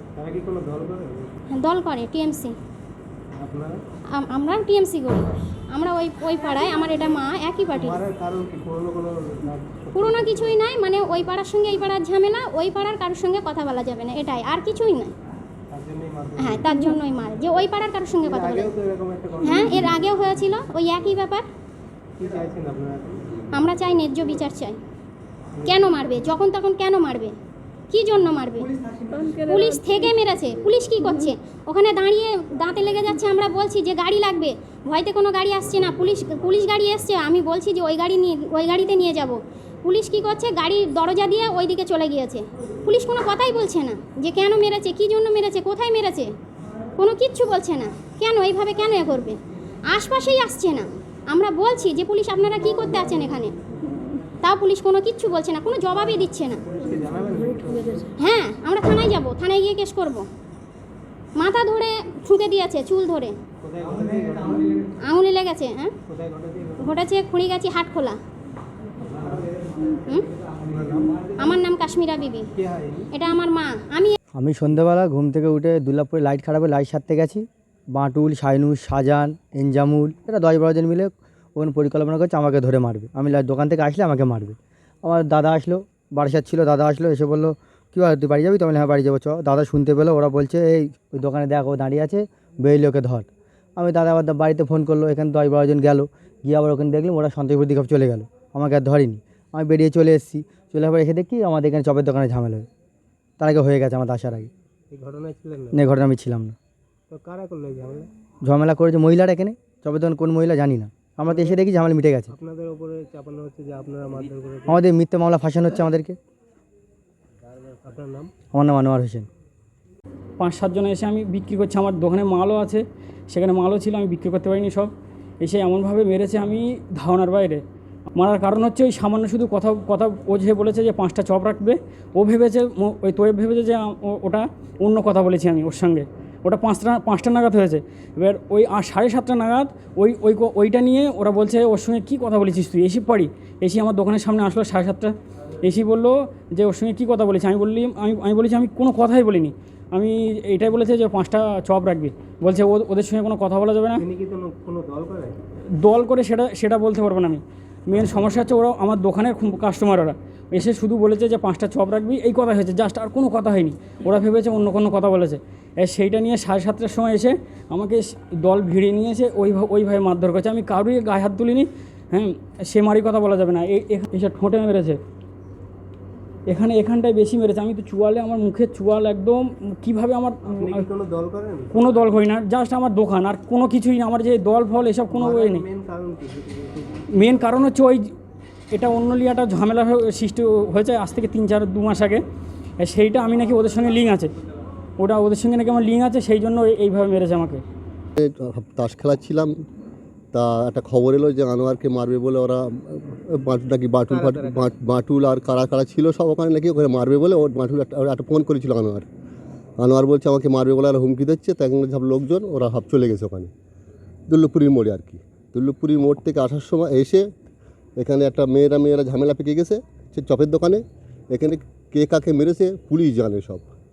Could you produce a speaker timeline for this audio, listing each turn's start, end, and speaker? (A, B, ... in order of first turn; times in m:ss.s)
0:00.2-0:01.3 A
0:01.5-0:02.5 B
0:03.3-0:03.8 A
0:04.1-0:08.0 B
0:07.7-0:10.6 A
0:09.9-0:15.1 B
0:15.7-0:16.7 A
0:16.4-0:18.7 B
0:18.2-0:20.0 A
0:19.4-0:21.4 B
0:22.2-0:23.3 A
0:23.5-0:24.8 B
0:25.6-0:27.3 B
0:27.9-0:46.3 B
0:47.0-0:49.4 B
0:49.9-0:53.6 B
0:54.4-0:56.6 B
0:56.7-0:58.0 A
0:58.2-1:00.2 B
1:01.4-1:03.3 B
1:03.6-1:04.8 A
1:05.0-1:05.9 B
1:06.1-1:06.9 A
1:06.8-1:08.2 B
1:09.0-1:09.5 A
1:10.6-1:11.3 A
1:11.4-1:12.4 B
1:12.5-1:13.1 A
1:13.1-1:14.2 B
1:14.4-1:42.7 C
1:43.4-1:44.5 C
1:44.9-1:45.8 A
1:45.7-1:46.5 C
1:47.1-1:48.1 A
1:48.4-1:52.3 C
1:51.3-1:51.6 A
1:52.3-1:54.8 A
1:54.7-1:56.2 C
1:57.4-1:58.3 A
1:58.5-1:59.3 C
2:00.4-2:07.6 D
2:08.1-2:34.0 D
2:34.0-2:35.4 A
2:35.8-2:55.0 D
2:56.5-3:00.8 D
3:00.5-3:01.7 A
3:01.7-3:05.6 D
3:05.1-3:07.0 A
3:07.1-3:08.1 D
3:08.7-3:12.2 D
3:12.8-3:14.3 D
3:15.0-3:17.6 D
3:18.2-3:19.5 E
3:20.3-3:29.0 E
3:24.1-3:24.7 A
3:29.8-3:33.5 E
3:34.3-3:37.3 E
3:38.0-3:43.6 E